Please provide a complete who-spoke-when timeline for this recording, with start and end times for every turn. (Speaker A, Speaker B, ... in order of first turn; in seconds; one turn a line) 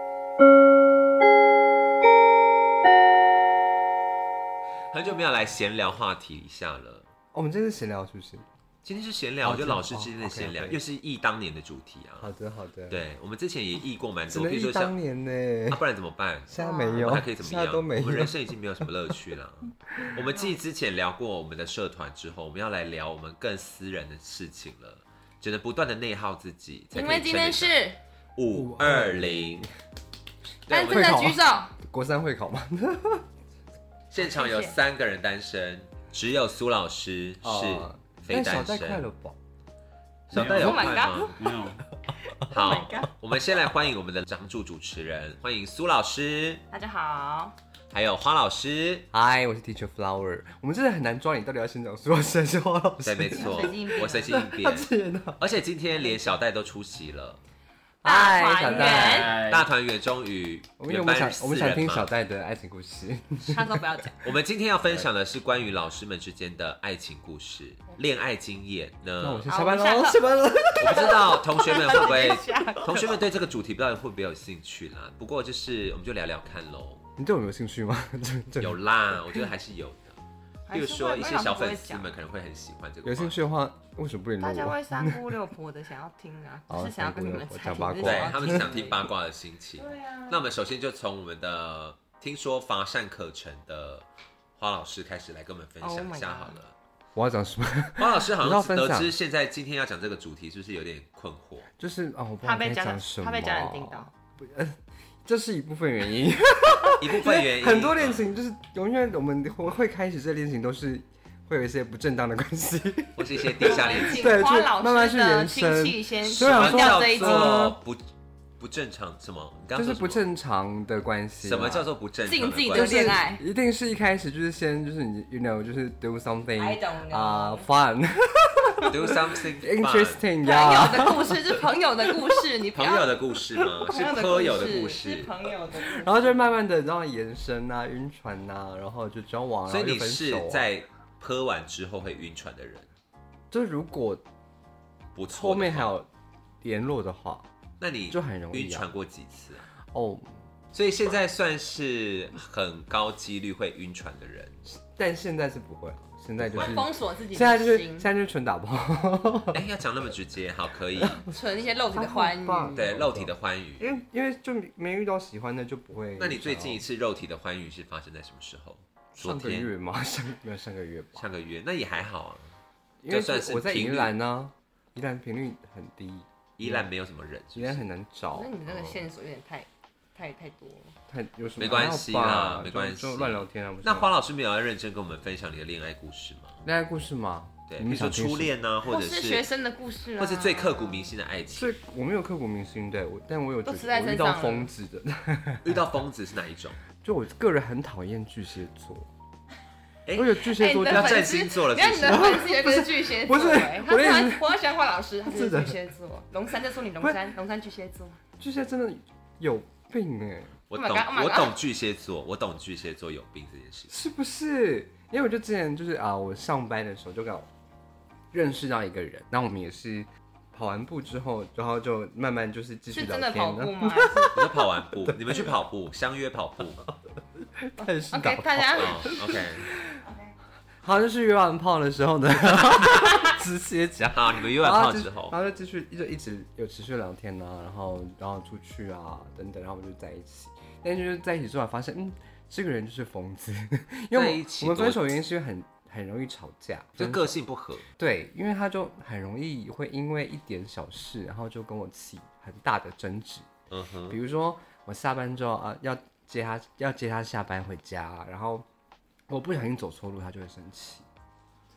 Speaker A: 4.9-7.1
Speaker B: 7.3-8.4
Speaker A: 8.8-12.3
Speaker B: 9.4-10.8
Speaker B: 12.2-13.0
Speaker A: 12.9-14.9
Speaker B: 14.3-15.8
Speaker A: 15.7-27.8
Speaker B: 16.5-18.4
Speaker C: 16.6-17.1
Speaker C: 26.9-28.0
Speaker A: 28.3-29.6
Speaker B: 28.5-29.7
Speaker C: 30.7-31.7
Speaker B: 30.7-33.2
Speaker A: 30.7-31.2
Speaker A: 34.1-39.0
Speaker C: 34.2-34.7
Speaker B: 37.4-39.4
Speaker A: 40.3-41.3
Speaker D: 40.3-41.9
Speaker C: 40.4-41.4
Speaker C: 42.4-43.1
Speaker A: 42.5-46.6
Speaker C: 46.7-47.5
Speaker A: 47.9-49.1
Speaker B: 49.1-53.7
Speaker A: 53.0-57.4
Speaker C: 53.3-54.4
Speaker B: 54.3-55.4
Speaker B: 58.0-59.4
Speaker C: 58.0-59.4
Speaker D: 58.6-59.7
Speaker A: 59.2-62.1
Speaker B: 60.8-63.8
Speaker C: 63.5-64.2
Speaker A: 64.2-69.5
Speaker B: 69.2-71.9
Speaker C: 69.5-70.2
Speaker A: 70.8-77.0
Speaker C: 70.8-73.2
Speaker B: 77.2-79.5
Speaker A: 78.6-80.2
Speaker C: 80.7-82.1
Speaker A: 80.7-83.4
Speaker B: 83.0-85.2
Speaker C: 84.4-89.0
Speaker B: 86.7-88.7
Speaker A: 88.0-94.0
Speaker C: 89.8-90.4
Speaker A: 94.6-96.7
Speaker C: 95.8-96.6
Speaker B: 97.2-99.1
Speaker A: 98.0-101.7
Speaker B: 101.8-117.8
Speaker C: 102.4-104.1
Speaker A: 106.9-108.2
Speaker A: 113.2-114.3
Speaker C: 113.7-117.7
Speaker A: 116.2-118.0
Speaker A: 118.6-120.2
Speaker B: 119.7-121.9
Speaker A: 121.4-123.2
Speaker C: 122.2-123.4
Speaker B: 122.7-131.6
Speaker C: 126.5-127.7
Speaker A: 128.8-130.2
Speaker C: 130.4-133.2
Speaker A: 132.7-135.4
Speaker C: 133.8-136.4
Speaker B: 135.8-140.6
Speaker A: 139.7-142.9
Speaker B: 143.5-144.2
Speaker A: 145.1-145.9
Speaker B: 145.3-146.1
Speaker B: 146.6-147.4
Speaker A: 147.8-149.7
Speaker B: 148.1-148.8
Speaker B: 149.9-150.3
Speaker A: 150.7-154.7
Speaker B: 154.8-159.6
Speaker A: 156.4-156.9
Speaker C: 156.6-158.1
Speaker A: 159.5-161.2
Speaker B: 160.9-161.4
Speaker C: 161.3-162.8
Speaker B: 161.9-166.8
Speaker A: 162.7-164.0
Speaker A: 166.2-169.7
Speaker B: 169.2-171.3
Speaker A: 171.2-172.6
Speaker B: 173.0-176.8
Speaker A: 173.1-174.1
Speaker A: 176.6-177.9
Speaker B: 177.5-178.5
Speaker C: 178.3-180.9
Speaker A: 178.7-179.0
Speaker B: 181.1-184.1
Speaker A: 181.6-186.6
Speaker B: 186.6-188.5
Speaker A: 187.7-189.5
Speaker C: 188.9-191.1
Speaker A: 190.2-191.7
Speaker B: 191.6-195.8
Speaker C: 193.7-194.7
Speaker A: 195.6-196.8
Speaker B: 197.0-199.1
Speaker A: 200.1-202.4
Speaker B: 200.1-201.4
Speaker C: 200.5-208.2
Speaker B: 202.0-204.6
Speaker B: 205.2-205.8
Speaker B: 208.4-210.5
Speaker A: 210.7-213.9
Speaker C: 210.7-211.6
Speaker B: 213.9-217.5
Speaker B: 218.3-225.5
Speaker C: 222.9-224.5
Speaker A: 224.3-226.9
Speaker B: 227.6-230.0
Speaker C: 227.8-229.2
Speaker A: 228.8-229.7
Speaker B: 230.8-247.3
Speaker A: 234.1-235.3
Speaker A: 244.1-245.2
Speaker A: 247.0-247.8
Speaker B: 248.0-253.5
Speaker A: 253.7-254.2
Speaker B: 254.1-258.6
Speaker B: 259.3-261.1